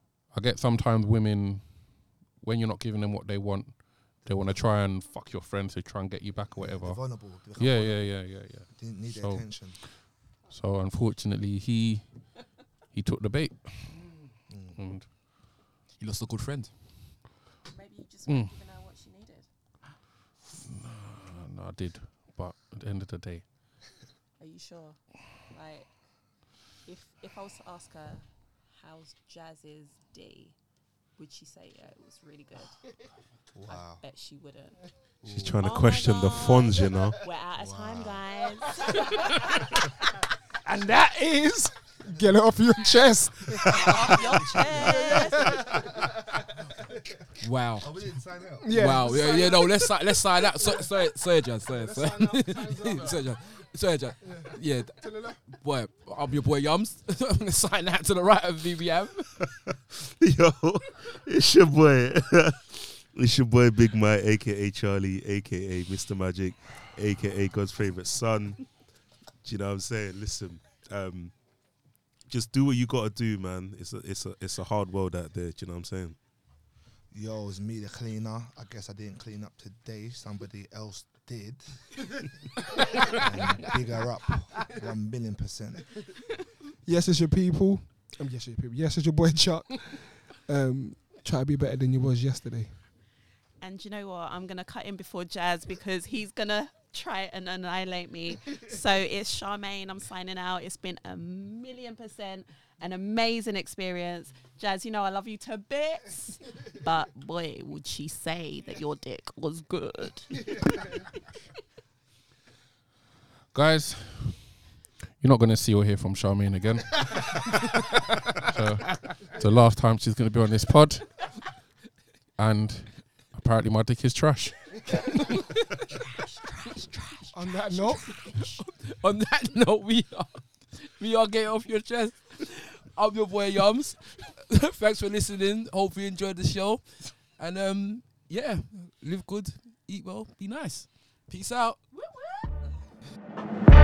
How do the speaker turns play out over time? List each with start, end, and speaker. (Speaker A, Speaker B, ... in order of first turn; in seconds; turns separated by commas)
Speaker A: 0.3-14.2, Speaker B: 4.2-5.0, Speaker B: 6.5-9.8, Speaker B: 14.5-14.8, Speaker A: 14.7-15.1, Speaker C: 16.0-16.8, Speaker D: 17.7-19.5, Speaker A: 18.2-18.5, Speaker A: 20.6-23.8, Speaker D: 24.4-30.6, Speaker D: 31.1-33.0, Speaker B: 33.5-34.0, Speaker D: 33.6-34.9, Speaker B: 35.2-35.6, Speaker E: 35.2-37.2, Speaker D: 35.6-39.7, Speaker B: 37.5-38.2, Speaker F: 40.6-45.7, Speaker B: 43.6-45.6, Speaker D: 43.7-45.6, Speaker C: 47.4-48.0, Speaker B: 47.8-49.0, Speaker F: 48.6-49.8, Speaker C: 48.7-59.4, Speaker D: 49.1-49.7, Speaker F: 50.6-50.9, Speaker F: 51.7-53.2, Speaker F: 54.2-55.4, Speaker E: 60.2-68.8, Speaker E: 69.4-76.2, Speaker B: 77.1-82.2, Speaker B: 83.1-86.0, Speaker F: 86.8-92.8, Speaker D: 93.6-111.0, Speaker A: 113.5-121.5, Speaker A: 122.4-124.8, Speaker D: 126.1-128.7, Speaker F: 127.3-128.2, Speaker C: 128.4-141.8, Speaker D: 141.9-142.6